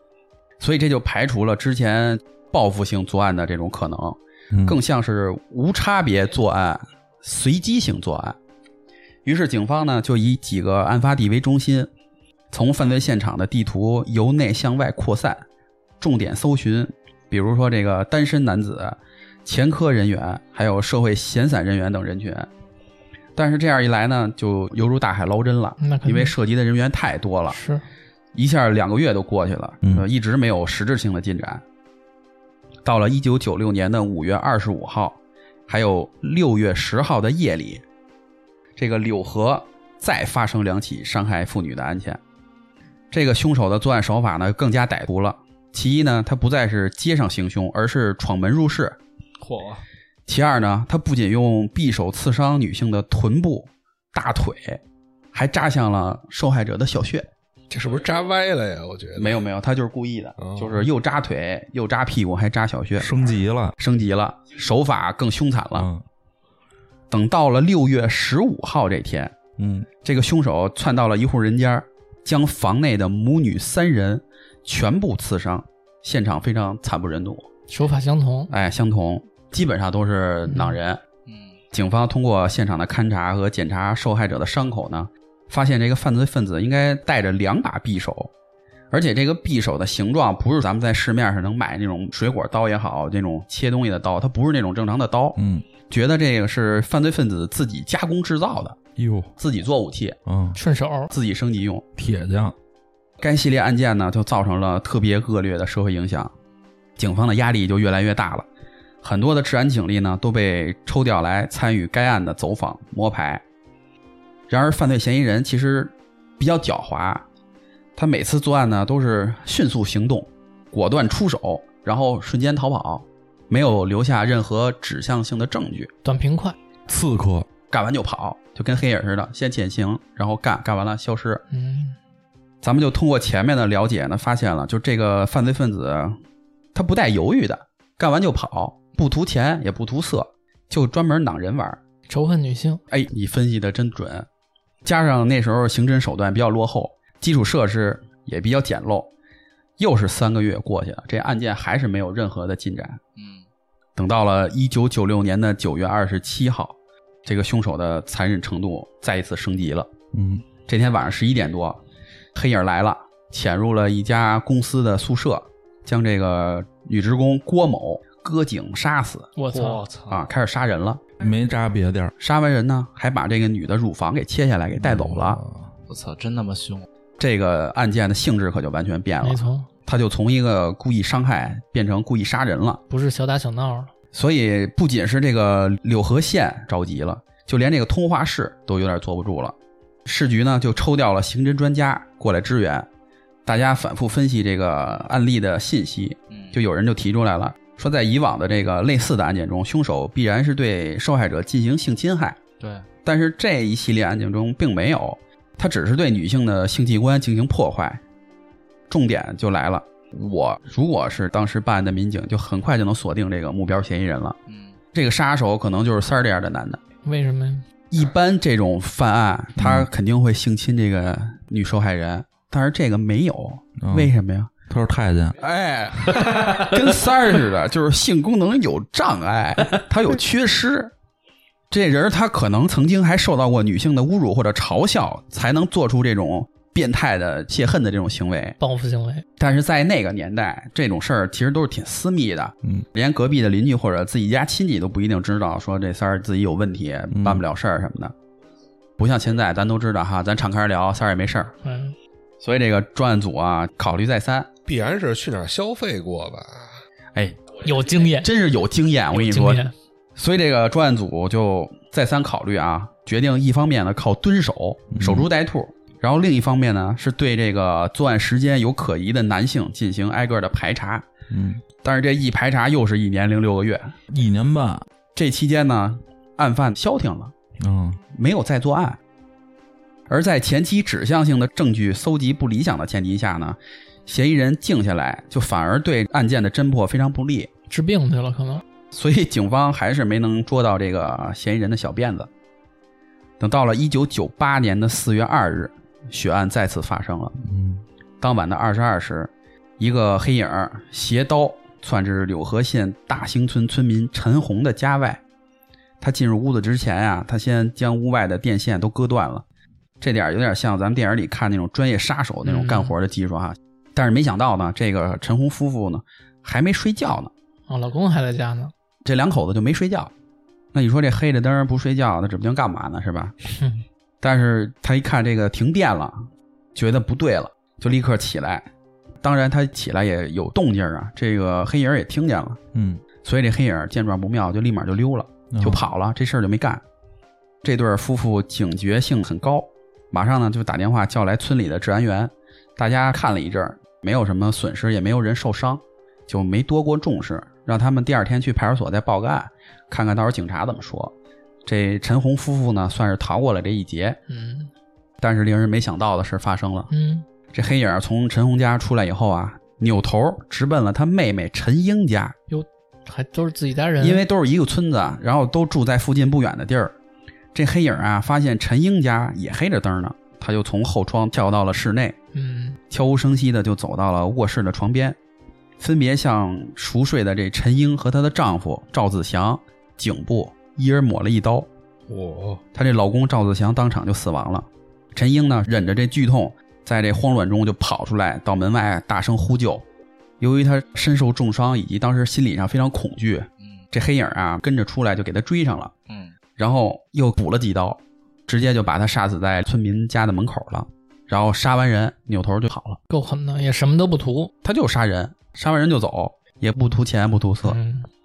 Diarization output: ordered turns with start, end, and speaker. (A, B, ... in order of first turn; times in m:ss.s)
0:00.6-0:08.4 A
0:04.5-0:04.8 B
0:09.2-0:11.9 A
0:12.5-0:15.4 A
0:16.0-0:22.5 A
0:23.4-0:27.6 A
0:25.8-0:26.3 C
0:27.5-0:27.8 C
0:28.3-0:31.6 A
0:32.8-0:37.8 A
0:38.8-0:42.2 A
0:43.1-0:49.0 A
0:49.4-0:49.8 D
0:50.3-0:54.8 A
0:55.3-0:57.3 A
0:57.7-0:59.4 E
0:59.2-1:03.1 A
1:00.4-1:00.7 E
1:03.0-1:03.8 B
1:03.8-1:05.9 A
1:05.7-1:06.0 B
1:07.1-1:09.3 A
1:09.6-1:09.9 B
1:10.0-1:17.5 A
1:17.7-1:18.5 C
1:18.5-1:21.0 A
1:20.5-1:20.8 C
1:21.2-1:21.6 D
1:21.7-1:28.3 A
1:28.9-1:38.8 A
1:35.4-1:35.6 B
1:39.0-1:39.3 B
1:39.4-1:40.2 A
1:40.2-1:40.6 B
1:40.5-1:41.1 C
1:41.1-1:41.8 A
1:42.0-1:42.5 B
1:43.2-1:46.3 A
1:47.0-1:48.4 A
1:49.0-1:53.4 A
1:54.5-1:57.2 A
1:58.0-2:05.9 A
2:06.0-2:06.6 C
2:06.9-2:07.5 B
2:07.7-2:11.4 A
2:11.5-2:12.0 C
2:12.6-2:16.2 A
2:16.7-2:21.8 A
2:22.1-2:22.8 C
2:22.9-2:24.3 A
2:24.8-2:29.1 A
2:29.8-2:33.0 A
2:33.2-2:33.4 D
2:34.0-2:39.9 A
2:40.1-2:40.4 B
2:40.7-2:41.8 A
2:42.3-2:49.3 A
2:49.4-2:49.8 C
2:49.5-2:50.2 D
2:50.1-2:51.0 A
2:51.2-2:52.1 B
2:52.2-2:55.4 A
2:54.8-2:55.7 B
2:55.9-2:56.9 D
2:57.2-3:02.8 A
2:59.2-2:59.7 C
3:02.9-3:03.9 C
3:04.1-3:12.9 A
3:13.4-3:22.4 A
3:16.3-3:16.6 D
3:22.6-3:22.8 D
3:23.0-3:28.0 A
3:28.9-3:34.4 A
3:34.5-3:34.8 D
3:34.9-3:36.8 A
3:37.0-3:37.6 C
3:37.9-3:44.5 A
3:39.6-3:39.9 B
3:43.8-3:44.1 B
3:44.7-3:45.4 B
3:45.4-3:50.9 A
3:51.7-3:58.6 A
3:58.6-3:59.2 C
3:59.4-4:08.1 A
4:07.1-4:07.4 B
4:09.0-4:11.5 A
4:11.6-4:12.0 C
4:12.4-4:14.5 A
4:14.6-4:16.7 E
4:17.1-4:17.4 A
4:17.6-4:18.3 C
4:18.2-4:19.6 A
4:19.1-4:19.7 C
4:20.2-4:31.1 A
4:24.9-4:25.3 B
4:31.3-4:31.6 B
4:31.8-4:34.0 A
4:34.1-4:34.8 B
4:35.1-4:37.3 A
4:37.6-4:38.0 B
4:38.1-4:39.0 A
4:40.1-4:47.5 A
4:47.7-4:48.6 C
4:48.9-4:52.3 A
4:53.4-4:57.4 A
4:57.4-4:57.8 B
4:58.2-5:05.2 A
5:06.0-5:09.4 A
5:10.0-5:17.3 A
5:12.4-5:12.9 C
5:17.7-5:18.7 C
5:19.0-5:20.1 A
5:20.7-5:23.4 A
5:23.5-5:23.8 C
5:24.2-5:28.7 A
5:29.2-5:32.6 A
5:32.7-5:33.0 B
5:33.2-5:36.8 A
5:35.5-5:35.8 B
5:37.6-5:51.1 A
5:51.6-5:54.2 A
5:54.3-5:54.7 C
5:55.2-5:56.9 A
5:56.9-5:57.2 C
5:57.5-6:02.3 A
6:02.5-6:04.2 C
6:04.0-6:06.9 A
6:07.5-6:12.2 A
6:12.3-6:12.8 C
6:12.9-6:15.2 A
6:15.8-6:21.7 A
6:22.1-6:22.6 E
6:22.7-6:29.8 A
6:30.4-6:35.9 A
6:36.1-6:36.3 D
6:36.6-6:43.0 A
6:43.1-6:44.5 C
6:44.6-6:47.8 A
6:47.6-6:48.1 C